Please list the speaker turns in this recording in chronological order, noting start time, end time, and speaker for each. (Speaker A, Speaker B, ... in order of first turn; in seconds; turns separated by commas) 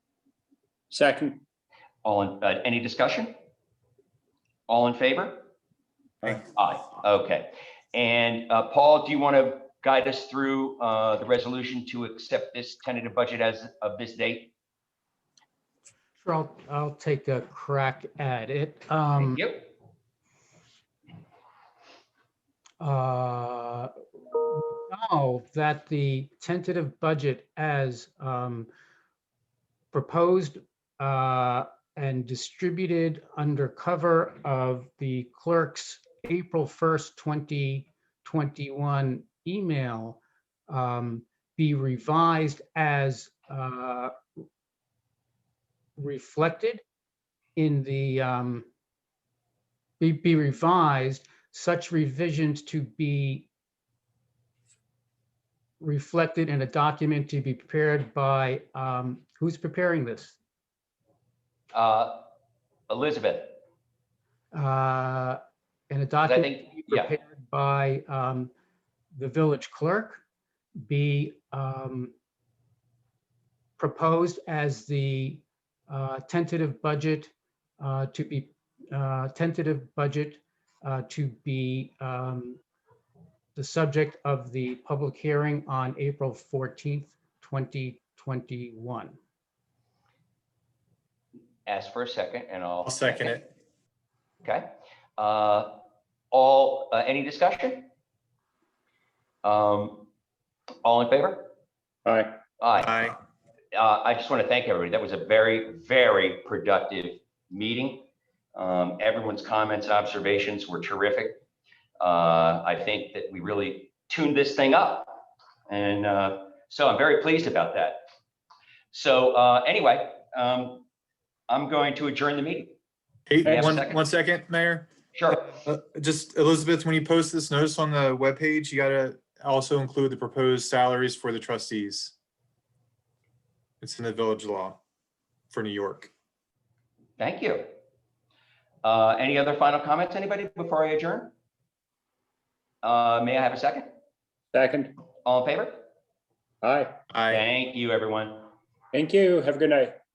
Speaker A: 0.9-1.4, Speaker B: 2.0-3.3, Speaker B: 4.7-5.5, Speaker B: 6.2-14.5, Speaker C: 16.2-19.4, Speaker B: 19.2-19.7, Speaker C: 22.8-28.7, Speaker C: 29.9-44.1, Speaker C: 46.0-46.8, Speaker C: 47.6-48.7, Speaker C: 50.0-53.5, Speaker C: 55.8-60.4, Speaker B: 61.7-62.3, Speaker B: 62.9-63.6, Speaker C: 64.5-65.4, Speaker C: 65.9-68.5, Speaker B: 66.3-67.2, Speaker C: 69.2-70.2, Speaker C: 70.8-72.1, Speaker C: 73.8-82.6, Speaker C: 83.6-89.2, Speaker B: 91.7-93.5, Speaker D: 92.8-93.4, Speaker B: 94.4-97.9, Speaker B: 99.4-100.1, Speaker B: 100.8-101.5, Speaker A: 102.0-102.4, Speaker B: 102.6-103.1, Speaker D: 102.8-103.1, Speaker B: 103.7-111.4, Speaker B: 112.0-118.0, Speaker B: 118.9-120.8, Speaker B: 121.5-122.8, Speaker D: 123.3-132.2, Speaker A: 123.4-123.8, Speaker B: 123.4-124.0, Speaker B: 125.1-125.5, Speaker D: 133.8-134.8, Speaker D: 135.5-136.1, Speaker B: 137.2-137.8, Speaker B: 138.8-141.3, Speaker B: 142.8-143.9, Speaker A: 144.5-145.0, Speaker B: 145.2-145.8, Speaker A: 146.6-147.0, Speaker D: 147.1-147.4, Speaker B: 147.3-148.5, Speaker A: 148.9-150.0